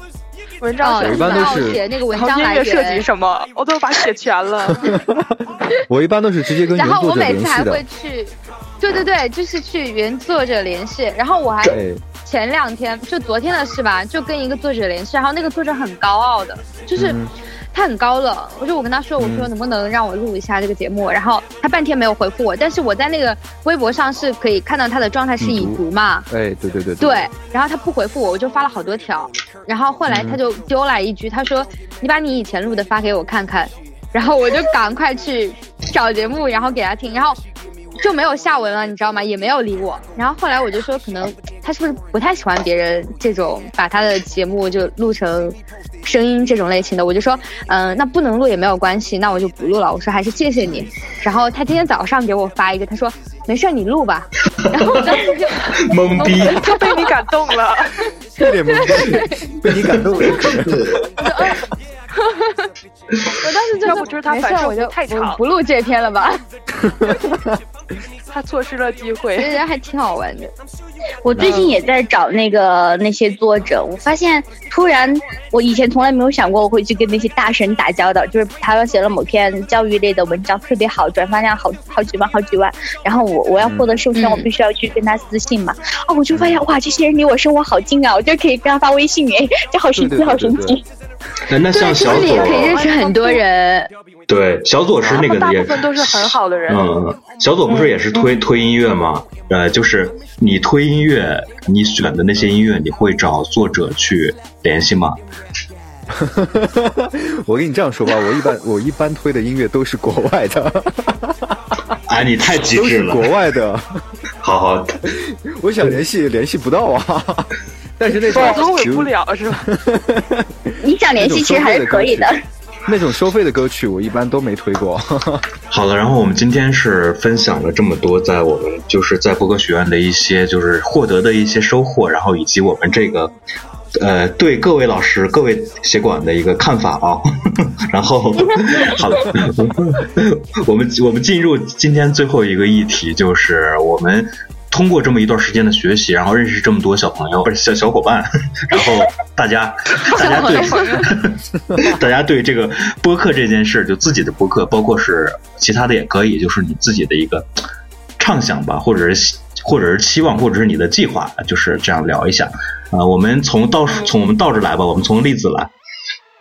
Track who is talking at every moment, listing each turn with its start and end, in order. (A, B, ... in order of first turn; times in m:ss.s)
0:00.6-0:04.9 A
0:00.8-0:03.0 B
0:01.0-0:01.8 C
0:04.7-0:07.8 C
0:06.7-0:17.2 B
0:11.6-0:12.0 C
0:17.0-0:17.3 C
0:17.7-0:26.3 B
0:19.2-0:19.5 C
0:25.4-0:27.3 C
0:27.0-0:37.4 B
0:30.1-0:30.4 C
0:38.0-0:57.1 B
0:54.7-0:56.7 D
0:56.3-0:58.0 A
0:58.4-1:01.0 C
0:58.7-0:59.4 B
1:00.2-1:01.0 D
1:01.2-1:01.6 B
1:02.2-1:02.7 B
1:03.4-1:06.4 B
1:03.8-1:05.4 A
1:07.0-1:07.5 C
1:08.3-1:09.6 A
1:09.4-1:10.5 B
1:11.2-1:30.8 E
1:11.4-1:11.6 C
1:11.4-1:11.7 B
1:23.6-1:24.0 C
1:24.1-1:24.5 B
1:26.3-1:26.6 C
1:29.9-1:30.8 C
1:31.4-1:32.8 D
1:31.7-1:33.9 B
1:31.8-1:33.4 A
1:34.3-1:45.2 D
1:35.0-1:36.9 A
1:46.1-1:51.8 C
1:52.1-1:53.2 D
1:52.5-1:54.0 C
1:54.4-1:55.0 D
1:55.1-2:02.3 C
1:58.2-1:59.7 A
1:58.3-1:58.6 E
2:00.8-2:02.4 E
2:02.8-2:05.4 C
2:05.7-2:13.3 D
2:14.0-2:17.2 D
2:17.9-2:37.5 D
2:30.0-2:31.1 B
2:30.1-2:31.1 A
2:38.2-2:45.7 D
2:43.9-2:44.1 B